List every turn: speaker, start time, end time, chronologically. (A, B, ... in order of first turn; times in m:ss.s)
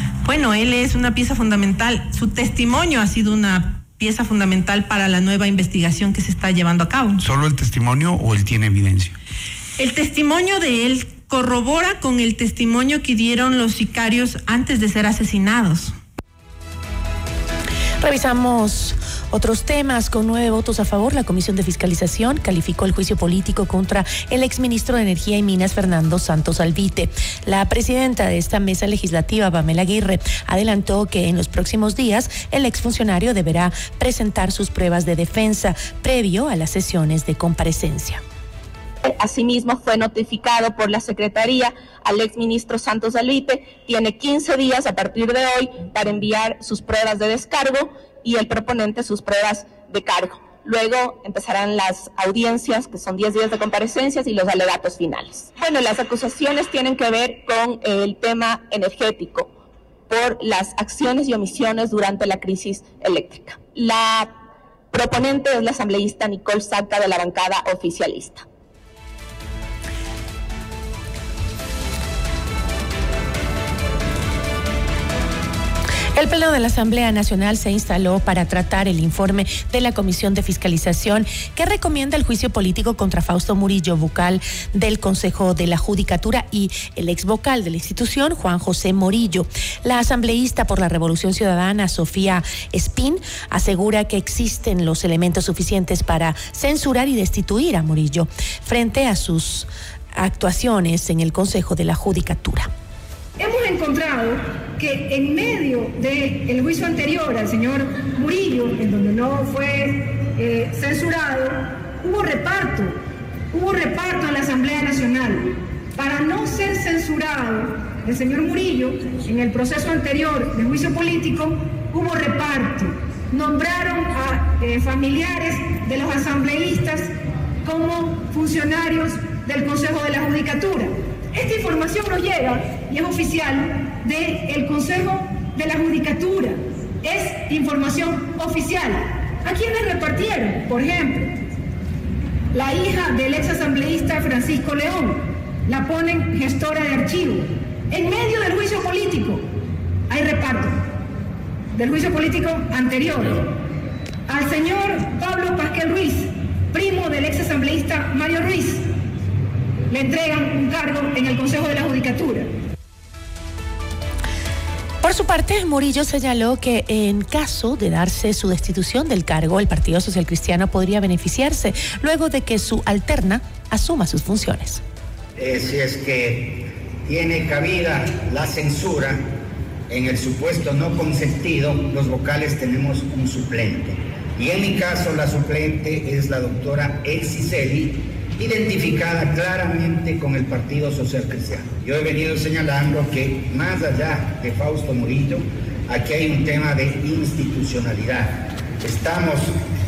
0:00.2-0:07.2 A
0:07.2-0:09.2 B
0:09.8-0:15.9 A
0:18.0-0:38.2 C
0:39.0-0:59.5 D
1:00.1-1:04.3 D
1:04.9-1:08.4 D
1:16.2-1:42.7 C
1:43.4-1:53.0 E
1:53.5-2:07.1 E
2:07.6-2:21.4 E
2:22.5-2:29.5 E
2:30.1-2:30.9 E
2:31.7-2:33.5 E
2:34.3-2:38.9 E
2:39.9-2:42.5 E
2:45.0-2:54.8 C
2:55.4-2:59.2 F
2:59.9-3:19.5 F